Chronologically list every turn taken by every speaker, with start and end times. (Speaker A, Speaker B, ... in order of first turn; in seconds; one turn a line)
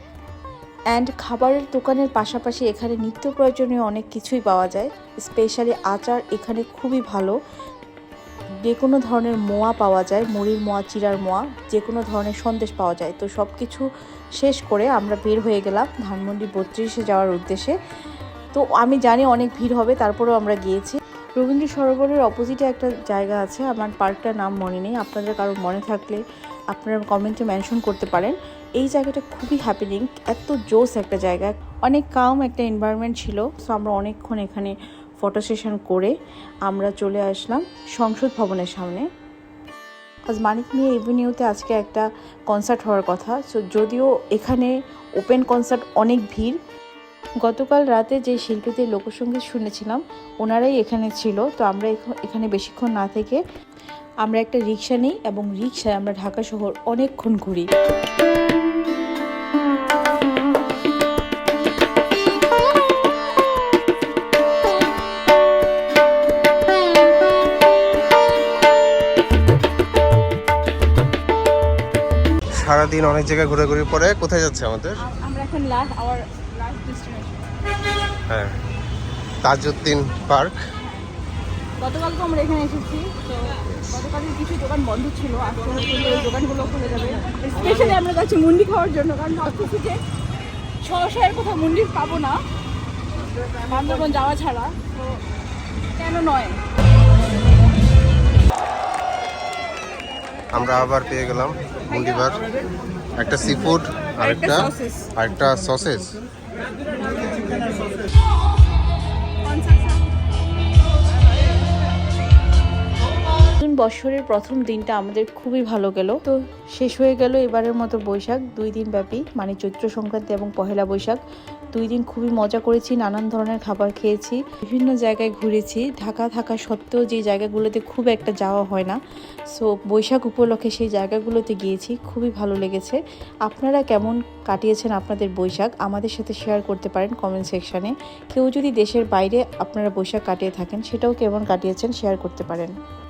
Speaker A: 0.9-7.4
Speaker A: 8.6-13.8
Speaker A: 14.4-17.8
Speaker A: 18.5-36.1
Speaker A: 36.6-39.1
Speaker A: 40.3-46.6
Speaker A: 47.4-53.4
Speaker A: 54.2-57.7
Speaker B: 72.6-75.0
Speaker C: 75.0-77.5
Speaker B: 78.3-78.5
Speaker B: 79.4-80.5
Speaker C: 80.8-81.1
Speaker C: 81.8-90.0
Speaker C: 90.8-92.4
Speaker C: 93.7-95.2
Speaker C: 96.0-96.6
Speaker B: 100.5-102.4
Speaker B: 103.2-106.1
Speaker C: 104.2-105.1
Speaker C: 107.1-107.8
Speaker C: 109.4-110.1
Speaker A: 113.5-121.2
Speaker A: 121.7-129.0
Speaker A: 129.5-142.7